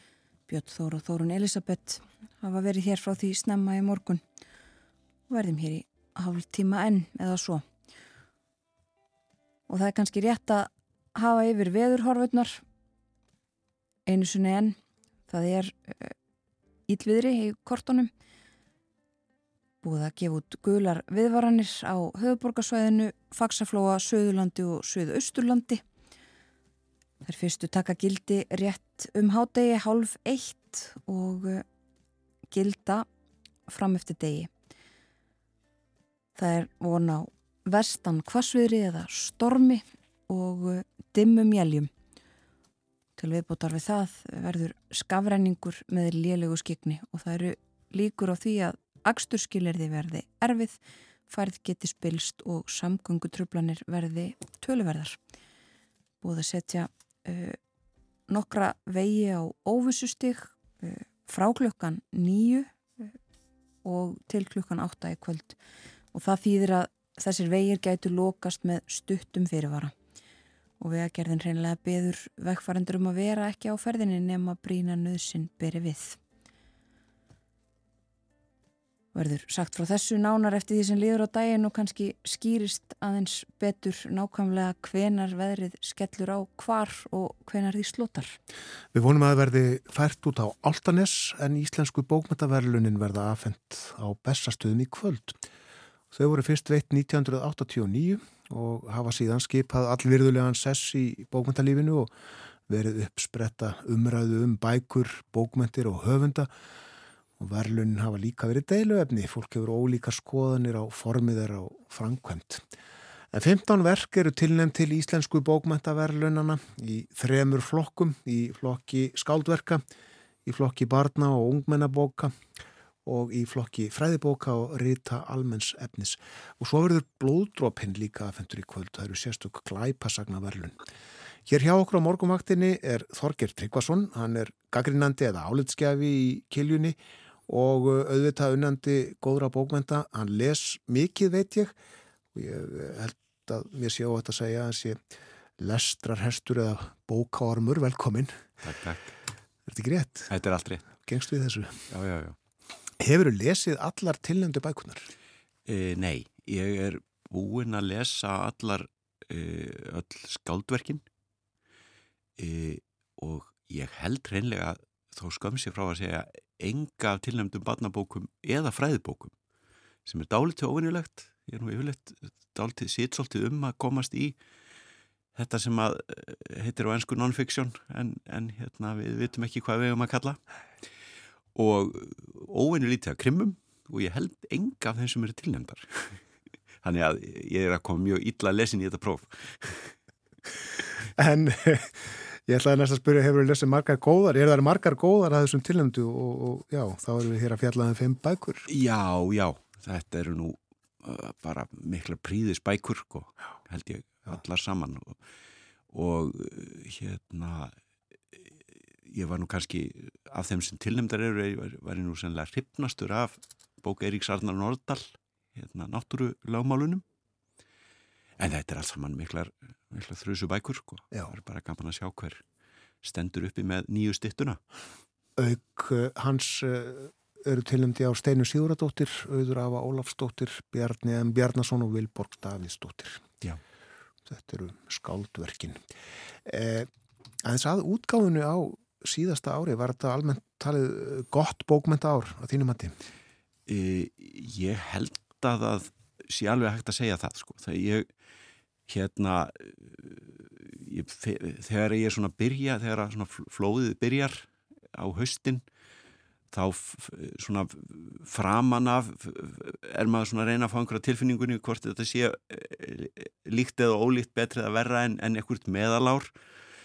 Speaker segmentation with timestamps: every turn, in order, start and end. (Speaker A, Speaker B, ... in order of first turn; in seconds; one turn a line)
Speaker A: 0.5-4.2
Speaker A: 5.3-7.6
Speaker A: 9.7-12.6
Speaker A: 14.1-14.8
Speaker A: 15.3-16.1
Speaker A: 16.9-18.1
Speaker A: 19.8-25.8
Speaker A: 27.2-31.6
Speaker A: 32.5-33.0
Speaker A: 33.7-34.5
Speaker A: 36.4-41.9
Speaker A: 43.2-50.8
Speaker A: 51.3-55.2
Speaker A: 56.2-57.6
Speaker A: 58.3-63.1
Speaker A: 63.8-65.6
Speaker A: 66.1-69.9
Speaker A: 70.8-76.2
Speaker A: 79.1-88.4
Speaker B: 88.9-95.4
Speaker B: 96.1-102.1
Speaker B: 102.7-106.5
Speaker B: 107.4-112.7
Speaker B: 113.3-119.8
Speaker B: 120.4-122.3
Speaker B: 123.0-130.8
Speaker B: 131.4-141.7
Speaker B: 142.3-145.0
Speaker B: 145.6-148.5
Speaker C: 148.6-149.1
Speaker B: 149.7-150.3
Speaker C: 150.3-150.8
Speaker B: 151.0-151.9
Speaker C: 151.9-152.4
Speaker B: 153.0-155.1
Speaker C: 155.7-161.0
Speaker C: 162.4-169.3
Speaker C: 170.0-174.4
Speaker C: 175.3-180.4
Speaker C: 181.5-186.2
Speaker C: 186.8-189.9
Speaker B: 191.1-198.7
Speaker C: 198.7-205.2
Speaker C: 205.9-207.7
Speaker C: 209.1-217.0
Speaker C: 218.4-222.4
Speaker C: 223.0-224.6
Speaker B: 225.4-233.3
Speaker B: 234.2-235.8
Speaker B: 236.4-236.9
Speaker B: 237.4-242.9
Speaker C: 243.7-248.1
Speaker C: 248.9-255.6
Speaker C: 256.5-266.3